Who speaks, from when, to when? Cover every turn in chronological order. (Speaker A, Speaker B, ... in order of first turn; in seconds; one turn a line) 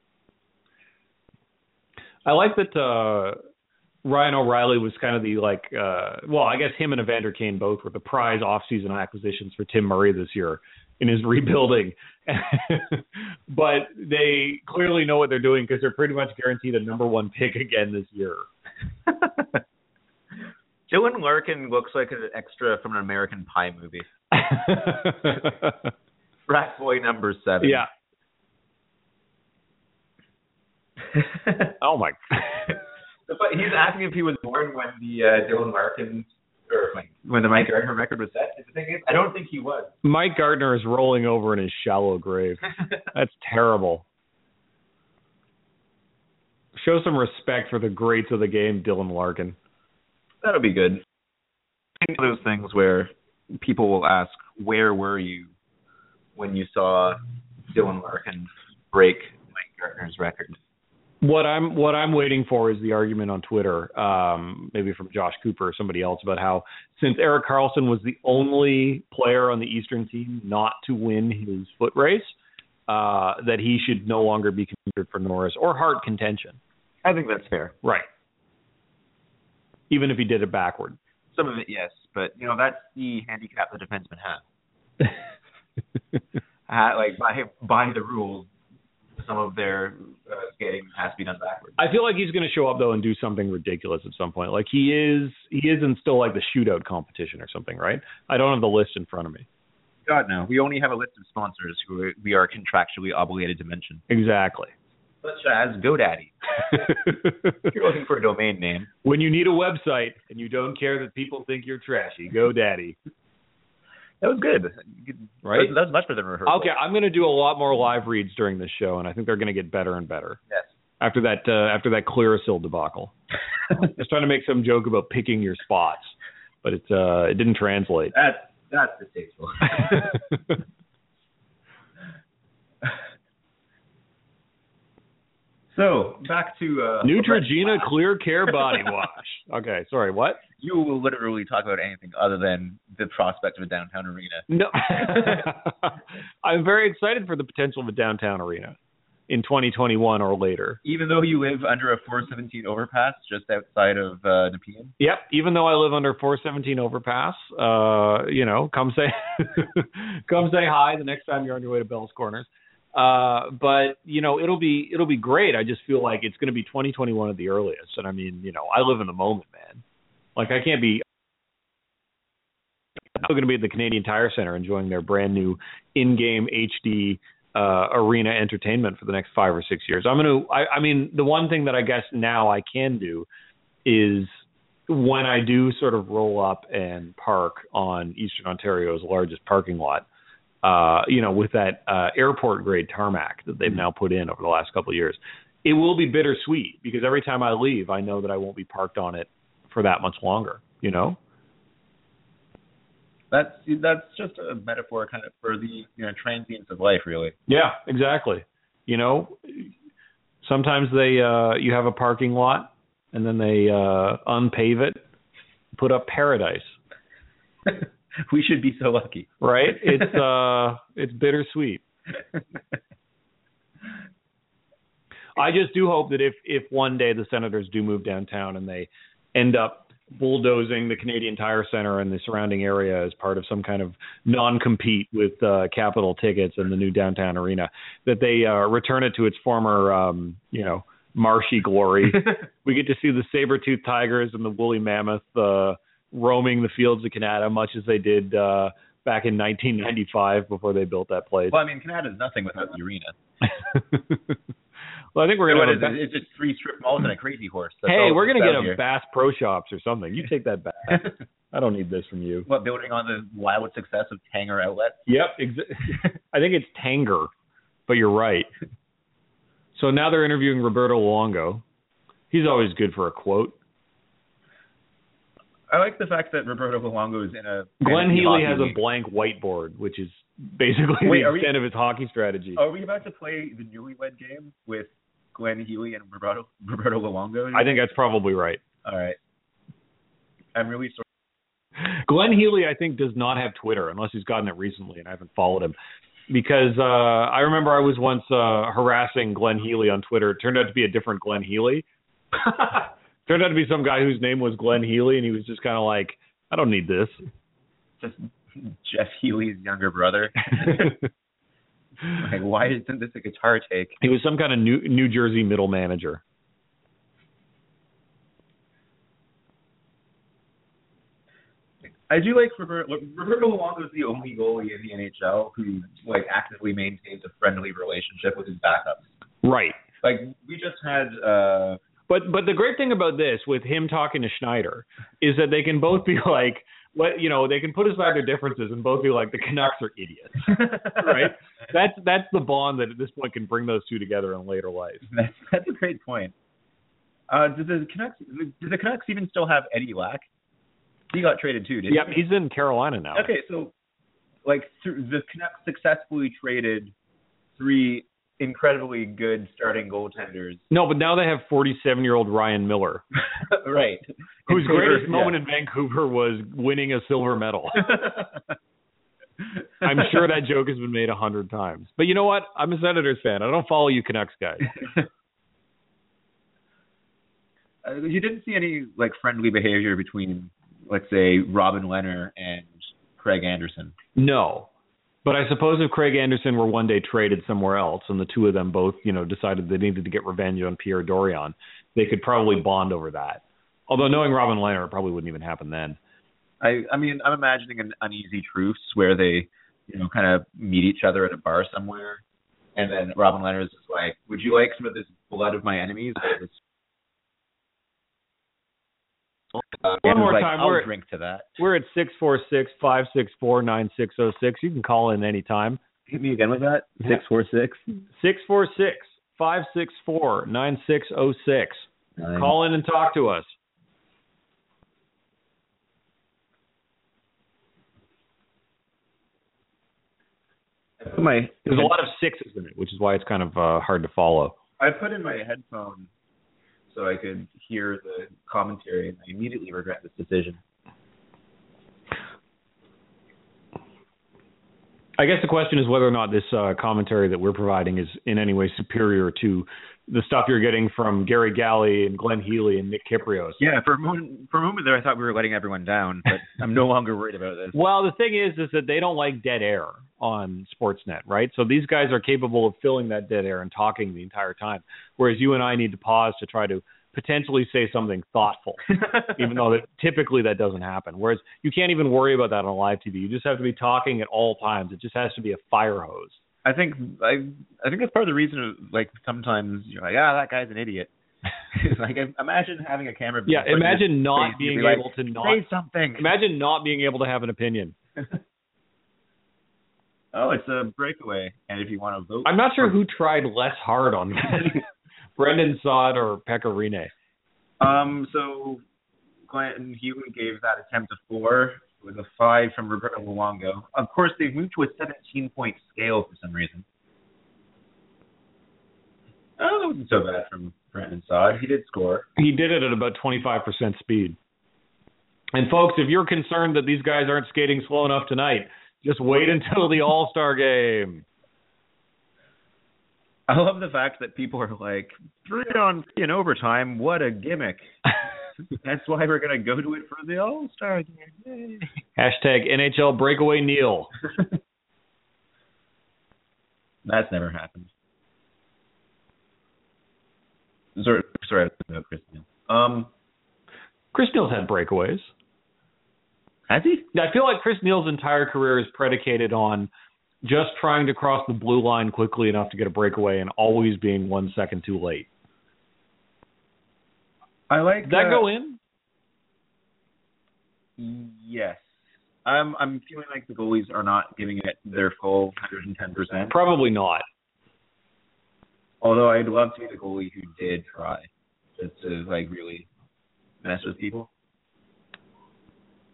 Speaker A: 2.2-3.4
Speaker A: 4.0-18.4
Speaker B: 19.1-19.4
Speaker B: 20.9-24.1
Speaker A: 24.3-25.9
Speaker B: 26.5-27.8
Speaker A: 27.6-27.9
Speaker B: 31.1-31.7
Speaker A: 31.8-32.7
Speaker B: 33.3-39.9
Speaker A: 40.0-42.6
Speaker A: 43.1-44.0
Speaker A: 46.7-49.5
Speaker B: 50.4-51.0
Speaker B: 52.0-55.5
Speaker B: 56.4-57.2
Speaker B: 57.7-60.6
Speaker A: 61.2-72.3
Speaker A: 72.9-76.6
Speaker B: 77.0-77.7
Speaker A: 79.9-81.0
Speaker B: 81.3-84.4
Speaker B: 86.7-88.5
Speaker B: 89.2-91.8
Speaker A: 91.8-99.5
Speaker B: 100.1-104.0
Speaker A: 104.1-104.7
Speaker B: 105.2-107.0
Speaker A: 106.8-107.3
Speaker B: 107.6-108.9
Speaker A: 109.0-113.0
Speaker B: 114.2-116.7
Speaker A: 115.4-115.7
Speaker A: 116.5-120.4
Speaker A: 121.0-123.1
Speaker A: 123.7-128.1
Speaker B: 128.1-130.2
Speaker A: 129.8-130.5
Speaker B: 135.7-137.9
Speaker A: 137.0-140.4
Speaker B: 140.6-145.5
Speaker A: 144.5-148.8
Speaker A: 149.3-150.8
Speaker B: 150.8-154.9
Speaker A: 155.0-169.8
Speaker A: 170.3-171.0
Speaker A: 173.1-183.3
Speaker A: 183.8-184.3
Speaker A: 184.9-190.0
Speaker A: 190.6-201.2
Speaker B: 203.3-207.3
Speaker A: 207.5-209.7
Speaker A: 210.4-215.0
Speaker A: 215.7-216.7
Speaker B: 217.7-219.3
Speaker A: 219.4-221.8
Speaker B: 219.9-220.2
Speaker A: 225.3-251.6
Speaker B: 251.5-253.2
Speaker A: 253.4-254.4
Speaker A: 255.1-256.0
Speaker B: 255.5-258.8
Speaker A: 257.9-262.5
Speaker B: 262.5-265.1
Speaker A: 265.1-267.3
Speaker A: 267.9-268.5
Speaker A: 269.7-271.6
Speaker A: 272.3-273.5
Speaker B: 275.7-278.8
Speaker A: 277.8-282.6
Speaker B: 281.0-281.5
Speaker B: 282.6-287.7
Speaker A: 287.5-288.6
Speaker B: 288.8-289.2
Speaker B: 290.5-291.0
Speaker A: 291.8-295.7
Speaker A: 296.3-301.8
Speaker A: 303.2-307.2
Speaker B: 308.0-311.0
Speaker B: 312.1-313.9
Speaker A: 314.0-316.2
Speaker B: 322.1-329.1
Speaker A: 329.4-329.8
Speaker B: 330.0-331.8
Speaker A: 332.1-345.0
Speaker B: 340.5-341.3
Speaker B: 345.1-346.3
Speaker B: 347.3-350.2
Speaker B: 351.1-352.1
Speaker A: 351.9-353.3
Speaker B: 353.1-353.7
Speaker B: 354.4-356.9
Speaker B: 357.6-360.6
Speaker A: 360.7-363.0
Speaker B: 363.3-365.4
Speaker A: 364.5-367.9
Speaker B: 367.8-368.4
Speaker A: 369.8-374.7
Speaker B: 377.8-383.9
Speaker A: 384.1-384.7
Speaker A: 385.2-396.0
Speaker B: 396.6-402.2
Speaker B: 402.8-406.6
Speaker B: 409.8-411.5
Speaker A: 410.0-410.9
Speaker A: 411.6-415.8
Speaker B: 416.1-417.8
Speaker A: 418.1-423.5
Speaker B: 422.2-422.5
Speaker B: 431.0-431.9
Speaker A: 431.6-434.6
Speaker B: 434.8-436.1
Speaker B: 436.9-440.6
Speaker A: 445.2-453.6
Speaker B: 453.6-457.8
Speaker A: 457.7-476.4
Speaker B: 468.9-469.4
Speaker B: 476.6-481.1
Speaker B: 481.7-486.3
Speaker A: 483.5-485.6
Speaker A: 486.2-487.9
Speaker B: 490.3-492.9
Speaker A: 492.4-494.8
Speaker A: 495.4-497.1
Speaker B: 497.8-498.8
Speaker B: 499.5-506.8
Speaker B: 509.6-512.2
Speaker A: 512.4-514.4
Speaker A: 515.5-521.2
Speaker B: 523.5-527.9
Speaker B: 528.8-531.9
Speaker A: 532.2-534.1
Speaker B: 537.0-537.9
Speaker B: 541.0-543.1
Speaker A: 544.1-545.3
Speaker B: 546.7-547.1
Speaker A: 547.1-549.9
Speaker A: 550.4-555.3
Speaker B: 557.7-558.5
Speaker A: 558.0-558.8
Speaker B: 561.0-561.9
Speaker B: 562.4-566.5
Speaker A: 566.5-567.2
Speaker B: 569.0-571.3
Speaker B: 571.8-572.9
Speaker B: 573.6-574.3